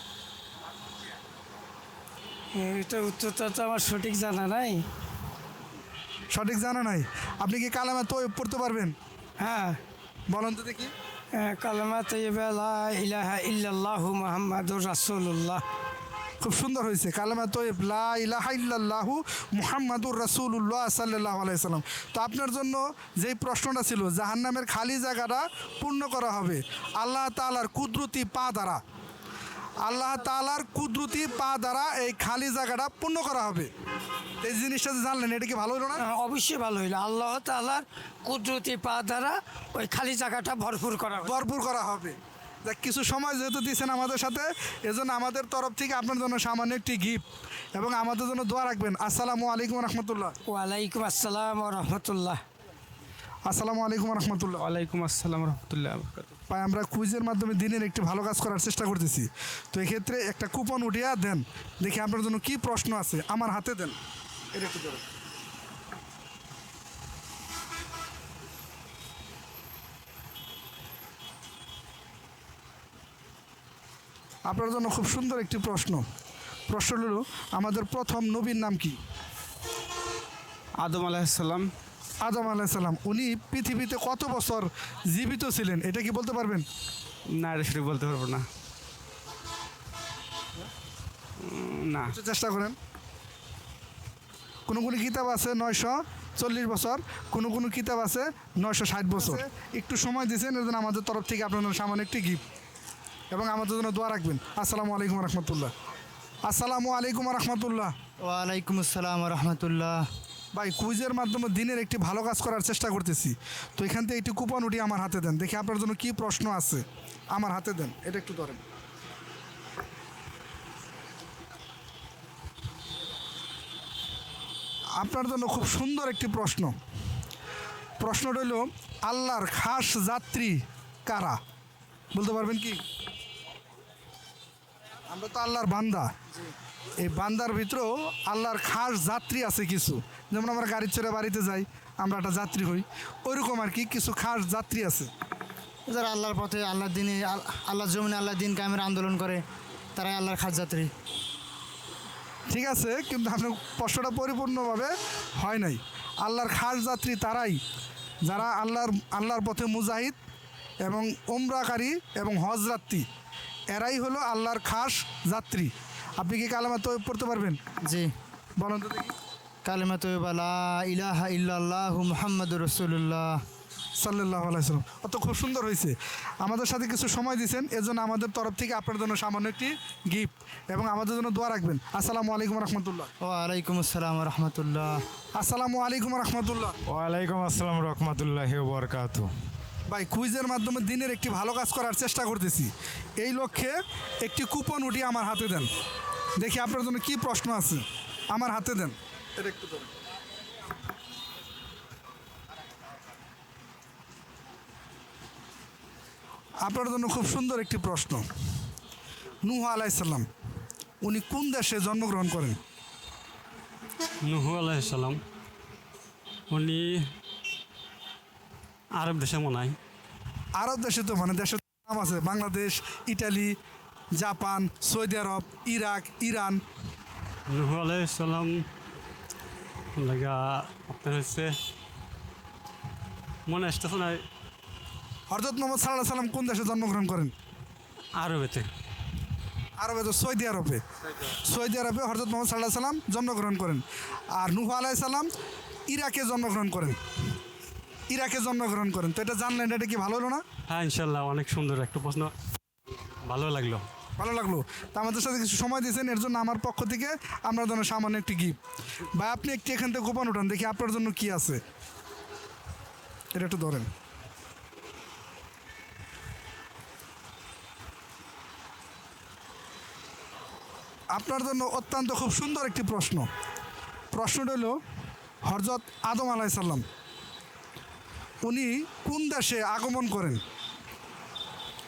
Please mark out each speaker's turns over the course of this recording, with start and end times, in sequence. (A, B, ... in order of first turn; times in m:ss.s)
0:02.5-0:04.8 A
0:06.3-0:08.9 B
0:09.4-0:09.8 A
0:10.3-0:10.9 B
0:11.3-0:15.6 A
0:16.4-0:28.8 B
0:29.8-0:33.7 B
0:34.4-0:36.0 B
0:36.0-0:41.3 A
0:41.2-0:47.2 B
0:47.7-0:50.3 B
0:50.4-0:52.4 A
0:53.5-0:54.6 B
0:54.6-0:56.4 C
0:56.5-1:04.0 B
1:04.5-1:05.0 B
1:14.4-1:16.0 B
1:16.7-1:19.0 B
1:20.8-1:21.7 C
1:22.2-1:26.6 B
1:27.3-1:28.5 C
1:31.4-1:32.2 C
1:32.0-1:32.8 B
1:34.7-1:42.4 B
1:43.3-1:45.7 B
1:46.4-1:47.9 B
1:48.2-1:50.0 D
1:50.5-1:58.6 B
2:05.0-2:06.8 B
2:08.0-2:11.4 B
2:12.1-2:12.8 B
2:15.1-2:16.1 B
2:17.0-2:25.1 B
2:25.9-2:29.4 D
2:29.9-2:30.9 D
2:32.5-2:37.6 B
2:38.2-2:40.2 B
2:40.8-2:43.0 B
2:43.7-2:47.6 B
2:47.8-2:48.1 D
2:48.6-2:49.1 B
2:49.6-2:53.3 D
2:54.0-3:03.1 B
3:03.2-3:04.9 D
3:05.4-3:06.7 B
3:06.9-3:09.3 E
3:09.9-3:15.7 B
3:16.4-3:19.9 B
3:26.6-3:28.2 B
3:29.4-3:30.3 B
3:31.0-3:32.6 B
3:34.2-3:35.2 F
3:36.5-3:37.0 F
3:39.0-3:39.8 F
3:40.6-3:43.6 B
3:44.1-3:46.6 B
3:47.5-3:48.6 F
3:50.0-3:51.5 F
3:53.5-3:54.2 F
3:55.3-3:57.3 B
3:58.2-3:58.7 F
3:59.8-4:03.8 B
4:04.4-4:05.3 B
4:05.9-4:07.0 B
4:08.1-4:10.4 B
4:10.7-4:12.3 F
4:13.2-4:13.8 F
4:14.2-4:18.6 B
4:19.1-4:21.6 B
4:23.3-4:23.9 B
4:31.1-4:33.3 B
4:34.1-4:34.8 B
4:35.4-4:36.8 B
4:38.4-4:40.4 B